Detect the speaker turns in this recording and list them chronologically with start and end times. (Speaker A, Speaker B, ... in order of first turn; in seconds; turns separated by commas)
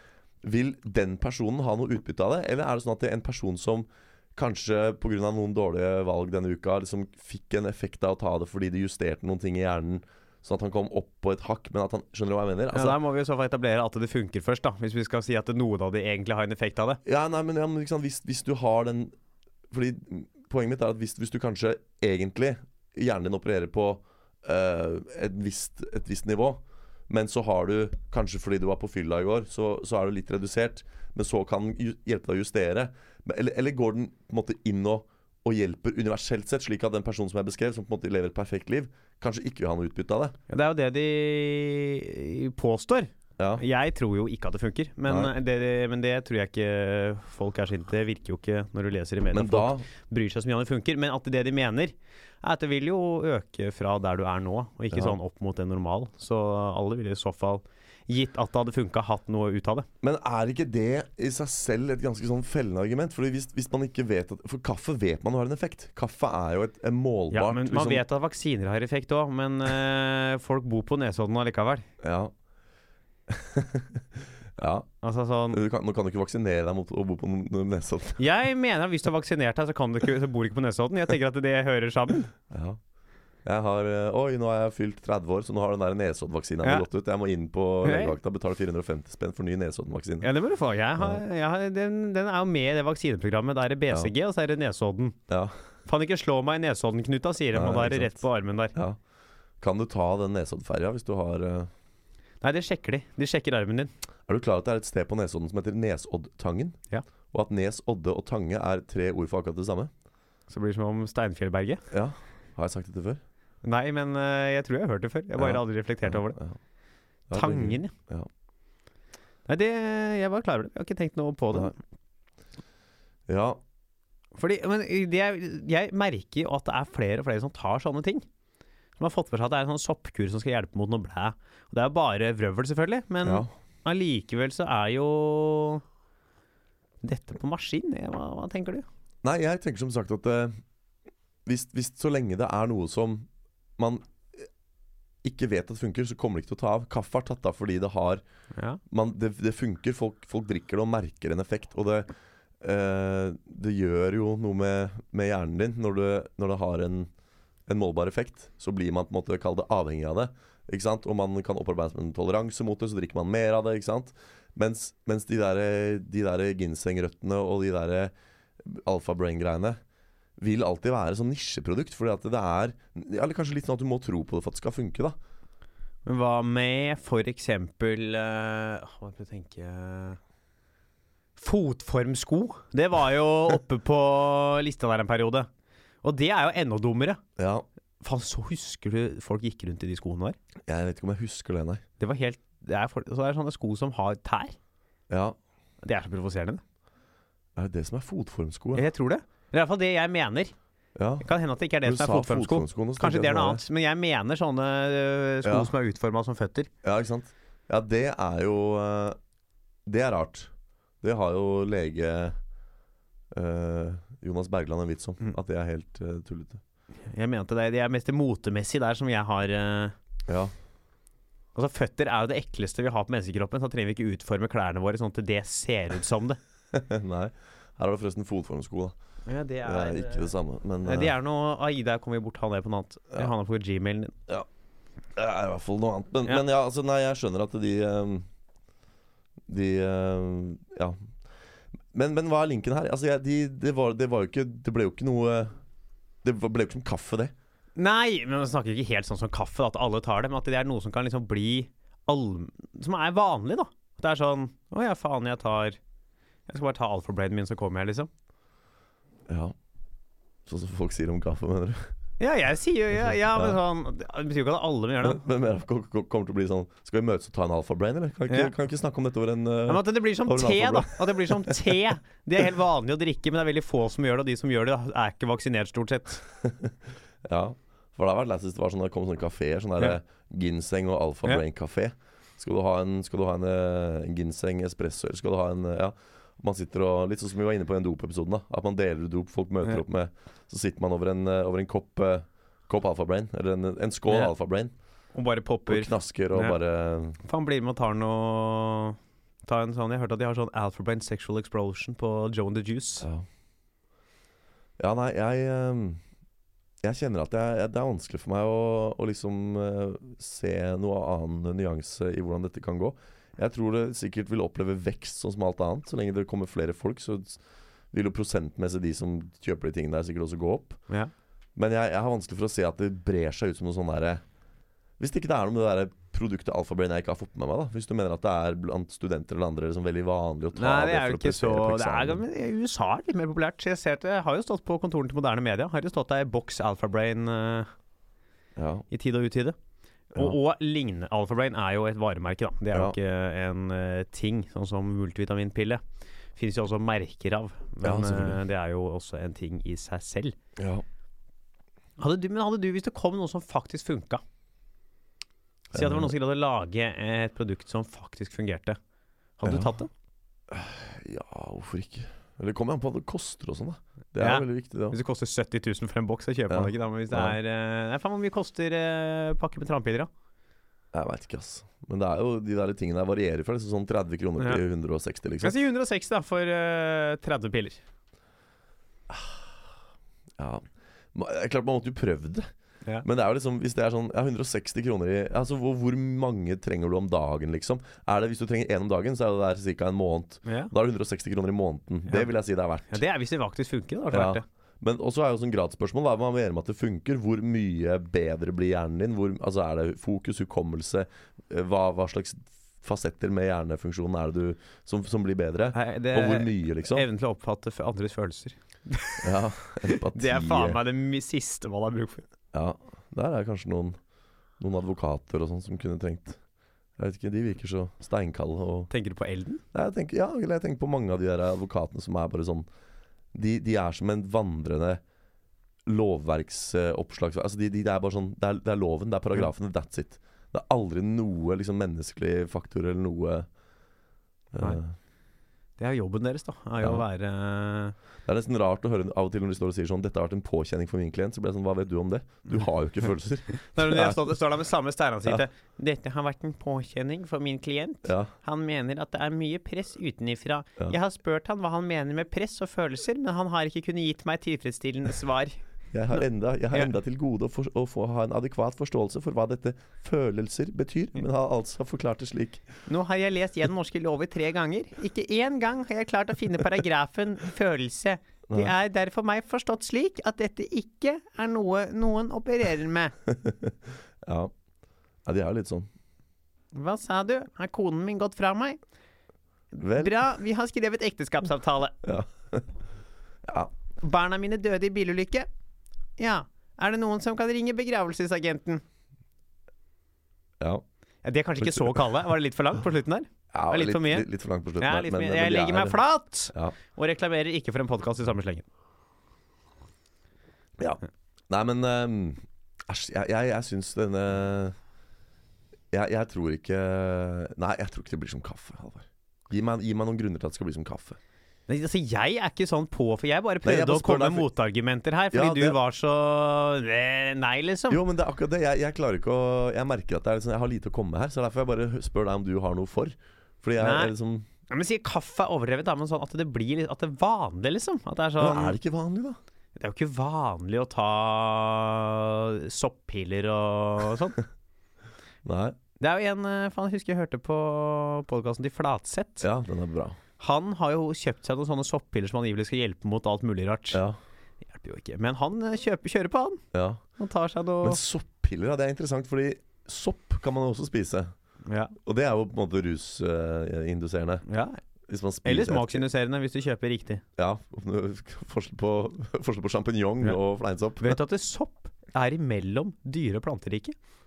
Speaker A: 0.4-13.0, Speaker B: 12.7-17.0, Speaker A: 17.1-19.1, Speaker A: 19.7-40.4, Speaker B: 40.5-59.9, Speaker A: 43.4-43.6, Speaker A: 45.1-45.3, Speaker A: 49.3-49.9, Speaker A: 60.0-68.0, Speaker B: 67.3-71.9, Speaker A: 72.0-72.3, Speaker A: 73.3-74.0, Speaker A: 74.6-74.9, Speaker B: 75.0-75.6, Speaker A: 75.5-78.2, Speaker B: 78.2-82.3, Speaker A: 82.5-82.8, Speaker A: 83.4-90.3, Speaker B: 87.8-88.1, Speaker B: 90.2-95.2, Speaker A: 95.3-95.5, Speaker B: 95.9-98.8, Speaker A: 97.5-98.2, Speaker A: 99.6-101.7, Speaker B: 102.4-103.9, Speaker A: 104.3-106.8, Speaker A: 107.3-109.9, Speaker B: 110.5-111.8, Speaker A: 111.9-113.2, Speaker B: 113.6-116.4, Speaker A: 115.4-116.6, Speaker A: 117.3-118.3, Speaker B: 117.3-117.9, Speaker B: 119.5-121.8, Speaker A: 123.3-123.6, Speaker B: 124.4-128.3, Speaker B: 129.0-135.8, Speaker A: 133.2-133.5, Speaker B: 137.0-138.9, Speaker A: 139.2-140.6, Speaker A: 141.4-143.3, Speaker A: 143.8-144.1, Speaker A: 145.2-148.2, Speaker B: 148.6-148.8, Speaker A: 148.9-152.1, Speaker A: 152.6-157.1, Speaker A: 157.7-169.8, Speaker A: 170.4-175.2, Speaker B: 176.1-180.2, Speaker B: 181.4-185.5, Speaker B: 186.0-187.2, Speaker A: 187.4-187.7, Speaker B: 188.0-190.4, Speaker A: 190.7-191.8, Speaker B: 192.0-194.6, Speaker A: 195.1-195.4, Speaker B: 195.8-196.6, Speaker A: 197.6-198.9, Speaker B: 198.7-200.5, Speaker A: 200.9-201.3, Speaker B: 201.2-206.7, Speaker A: 201.8-203.6, Speaker A: 205.4-205.7, Speaker A: 206.8-209.2, Speaker A: 209.9-210.5, Speaker A: 211.0-212.4, Speaker A: 213.3-216.6, Speaker B: 217.1-219.9, Speaker A: 220.3-220.5, Speaker B: 221.6-226.4, Speaker A: 226.7-228.9, Speaker B: 229.3-230.3, Speaker A: 229.6-231.1, Speaker B: 230.8-234.2, Speaker A: 235.1-238.3, Speaker A: 239.5-241.0, Speaker A: 241.9-245.5, Speaker A: 246.2-247.3, Speaker B: 247.8-255.8, Speaker B: 256.5-258.1, Speaker A: 259.3-259.6, Speaker A: 260.4-261.9, Speaker B: 262.2-265.2, Speaker A: 263.1-263.6, Speaker A: 265.0-271.8, Speaker B: 269.7-276.2, Speaker A: 276.4-276.7, Speaker A: 277.2-294.7, Speaker B: 294.1-294.3, Speaker B: 295.1-296.6, Speaker A: 295.7-297.2, Speaker B: 297.2-303.1, Speaker A: 303.0-303.3, Speaker A: 304.8-306.0, Speaker A: 306.8-317.4, Speaker A: 317.9-320.8, Speaker A: 321.6-324.2, Speaker A: 325.0-332.2, Speaker B: 330.6-337.7, Speaker A: 338.6-338.9, Speaker B: 338.9-339.6, Speaker B: 340.1-345.8, Speaker B: 346.4-350.4, Speaker A: 347.8-348.4, Speaker A: 350.6-350.8, Speaker B: 352.0-354.2, Speaker B: 355.7-358.8, Speaker A: 355.7-356.1, Speaker B: 359.4-359.9, Speaker A: 359.4-359.7, Speaker A: 360.5-365.0, Speaker B: 364.2-370.1, Speaker A: 366.5-367.4, Speaker A: 370.9-375.6, Speaker B: 375.4-377.8, Speaker A: 380.4-382.5, Speaker A: 383.0-393.0, Speaker B: 390.4-390.7, Speaker B: 392.9-394.4, Speaker A: 394.1-407.1, Speaker B: 405.7-409.3, Speaker A: 409.2-410.8, Speaker B: 409.9-412.2, Speaker A: 412.5-414.0, Speaker A: 414.6-416.4, Speaker A: 417.0-418.9, Speaker B: 418.9-419.6, Speaker A: 419.7-422.7, Speaker A: 423.3-425.0, Speaker A: 425.9-433.5, Speaker A: 434.5-434.9, Speaker B: 435.8-437.9, Speaker A: 438.3-444.3, Speaker B: 443.6-455.6, Speaker A: 448.1-448.3, Speaker A: 455.9-462.7, Speaker B: 462.9-473.1, Speaker A: 468.5-468.7, Speaker A: 473.3-474.5, Speaker A: 475.2-475.9, Speaker B: 476.7-478.8, Speaker B: 479.7-481.9, Speaker A: 479.8-480.1, Speaker A: 482.0-482.7, Speaker A: 483.4-483.7, Speaker B: 484.0-485.5, Speaker B: 486.2-488.8, Speaker B: 491.2-494.3, Speaker A: 491.6-492.1, Speaker A: 493.5-496.7, Speaker B: 494.8-498.6, Speaker A: 500.8-504.8, Speaker A: 505.9-511.2, Speaker B: 511.7-518.0, Speaker A: 513.6-514.5, Speaker A: 515.3-515.8, Speaker A: 517.9-524.5, Speaker B: 523.8-524.1, Speaker B: 524.7-528.8, Speaker A: 528.4-529.4, Speaker B: 529.8-534.4, Speaker A: 535.5-535.8, Speaker B: 536.0-539.5, Speaker A: 539.4-540.2, Speaker B: 540.4-544.0, Speaker A: 543.9-544.2, Speaker B: 544.7-546.6, Speaker A: 546.7-547.0, Speaker B: 547.2-548.0, Speaker A: 547.8-551.3, Speaker B: 551.7-551.9, Speaker A: 552.0-554.4, Speaker B: 554.5-554.8, Speaker A: 555.1-556.0, Speaker B: 555.5-557.2, Speaker A: 557.4-561.2, Speaker B: 561.0-564.0